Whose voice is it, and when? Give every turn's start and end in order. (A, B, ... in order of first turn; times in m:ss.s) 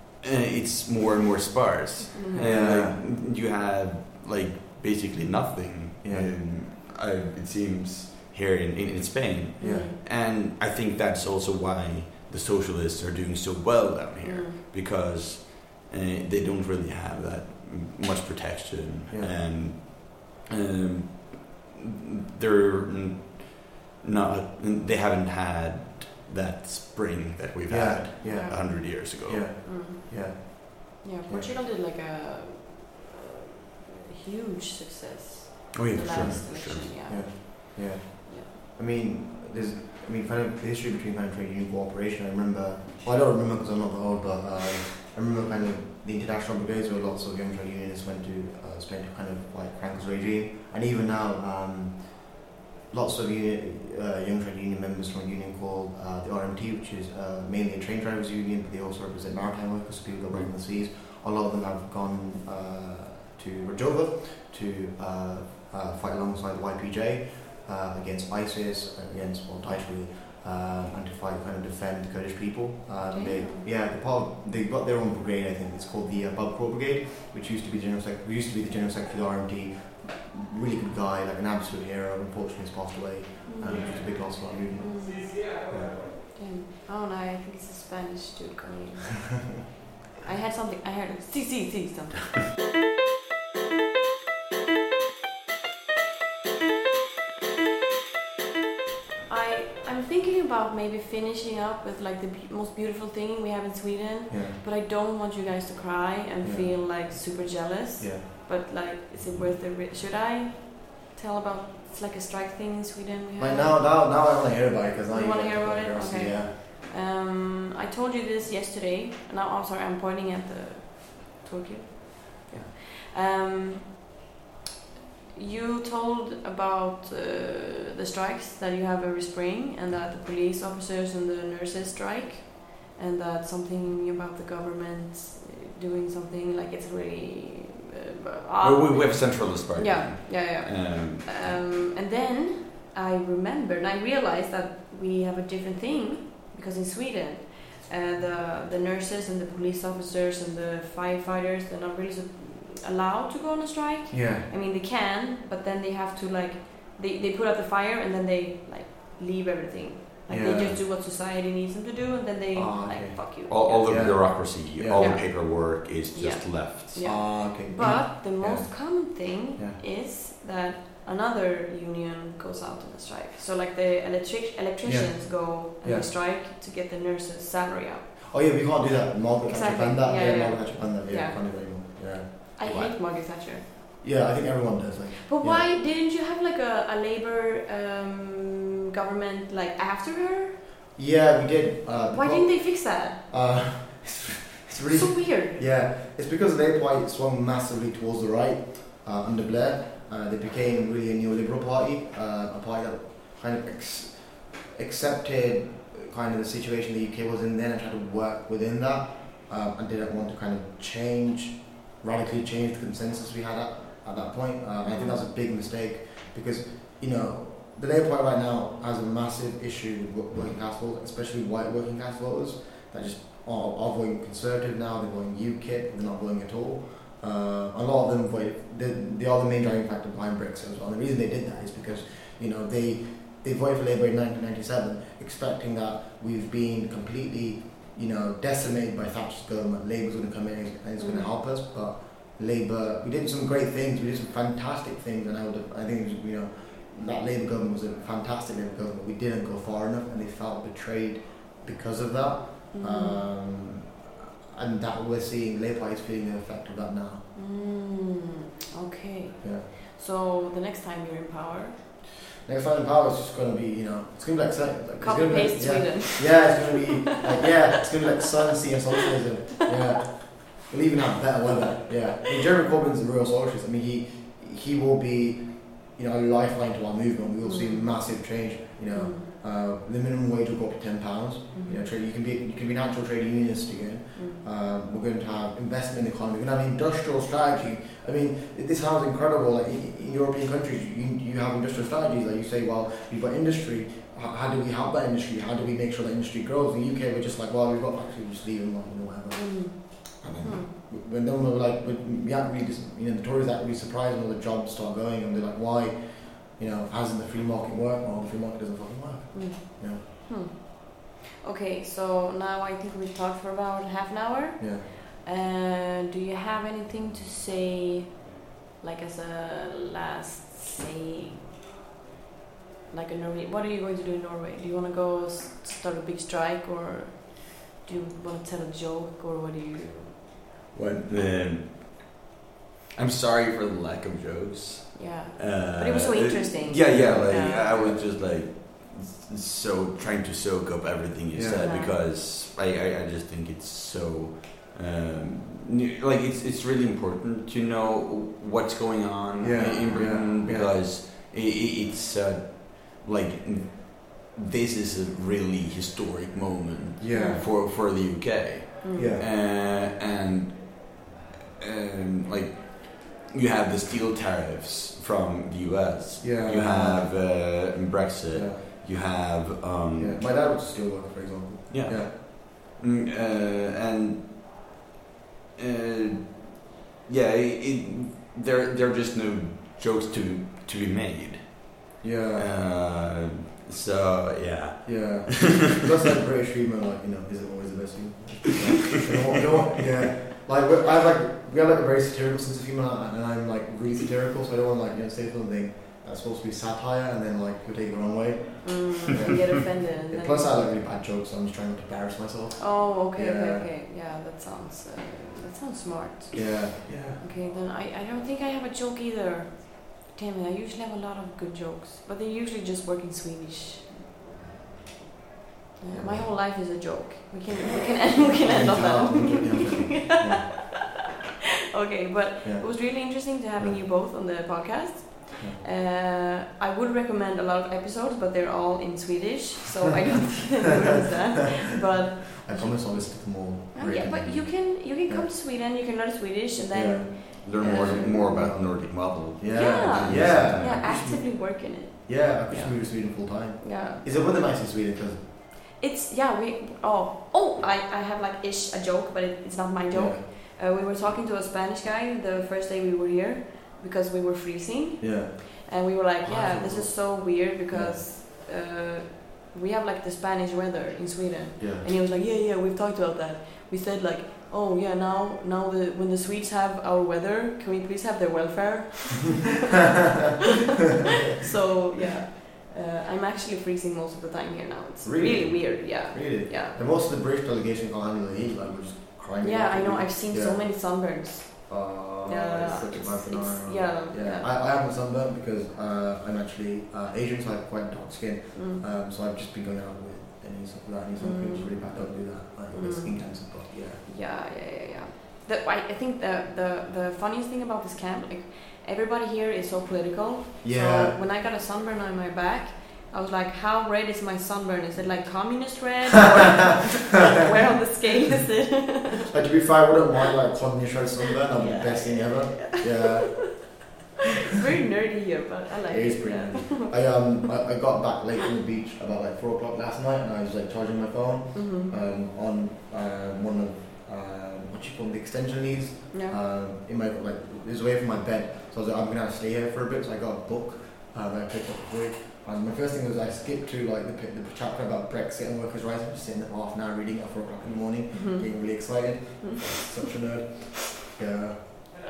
0:00.2-0:29.5 A
0:02.1-0:02.6 B
0:02.5-0:03.0 C
0:06.0-0:06.3 C
0:09.6-0:10.0 B
0:09.6-0:09.9 C
0:14.2-0:14.6 B
0:19.1-0:19.3 C
0:27.7-0:31.5 C
0:28.2-0:29.0 B
0:29.6-0:38.5 B
0:35.7-0:37.0 A
0:36.2-1:26.0 C
1:13.1-1:13.6 B
1:23.4-1:25.5 B
1:26.2-1:29.7 B
1:30.2-1:32.4 B
1:39.3-1:53.8 B
1:44.3-1:44.6 C
1:46.4-1:47.0 C
1:48.0-1:48.2 C
1:53.4-1:56.5 C
1:55.1-2:04.0 B
2:05.3-2:58.2 B
2:18.6-2:21.3 A
2:34.1-2:34.5 C
2:40.3-2:40.8 C
2:42.5-2:45.1 C
2:43.5-2:47.0 A
2:47.0-2:49.8 C
2:54.8-2:56.1 C
2:58.3-3:02.5 C
2:59.4-3:03.6 B
3:02.6-3:02.9 A
3:04.0-3:05.6 C
3:05.2-3:10.6 B
3:11.0-4:17.3 C
3:12.1-3:13.2 B
3:14.9-3:15.6 B
3:34.8-3:35.2 B
4:01.0-4:01.3 B
4:12.7-4:13.2 B
4:17.3-4:21.8 B
4:19.4-4:19.7 C
4:22.4-5:10.0 C
4:25.0-4:26.6 B
4:37.4-4:38.1 B
4:38.9-4:39.3 B
4:41.5-4:41.9 B
4:44.1-4:44.4 B
4:59.3-5:00.7 B
5:09.3-5:21.5 B
5:14.6-5:14.8 C
5:22.9-5:30.2 B
5:30.7-5:32.0 A
5:32.9-6:01.1 A
5:34.9-5:38.0 B
5:36.8-5:38.0 C
5:41.3-5:41.7 C
5:41.6-5:42.0 B
5:49.4-5:50.8 C
5:57.0-5:57.4 C
5:57.1-5:57.4 B
5:58.8-5:59.1 B
5:58.9-5:59.2 C
6:01.6-6:10.2 A
6:06.2-6:07.1 C
6:08.3-6:08.6 C
6:10.0-6:12.1 C
6:11.7-6:14.6 A
6:15.6-6:25.7 A
6:22.0-6:22.5 C
6:24.8-6:43.7 C
6:38.6-6:40.5 B
6:42.6-6:54.0 B
6:46.3-6:47.2 C
6:55.8-7:00.8 B
6:55.9-6:56.3 C
6:58.3-7:00.8 C
7:01.7-7:18.5 B
7:02.4-7:03.8 C
7:05.4-7:05.6 C
7:12.4-7:15.3 C
7:16.7-7:25.3 C
7:17.4-7:20.9 A
7:19.5-7:24.3 B
7:25.8-7:49.7 B
7:29.9-7:30.2 C
7:35.0-7:35.5 C
7:36.2-7:38.0 C
7:41.6-7:41.9 C
7:51.4-7:56.7 B
7:55.0-8:01.1 C
7:59.4-8:04.5 B
8:01.7-8:14.0 C
8:08.5-8:08.8 B
8:11.2-8:29.3 B
8:20.6-8:21.2 C
8:29.3-8:33.8 C
8:31.6-8:33.6 B
8:34.4-8:37.4 B
8:35.9-9:01.9 C
8:41.5-8:41.9 B
8:46.1-8:46.4 B
8:58.1-8:59.5 B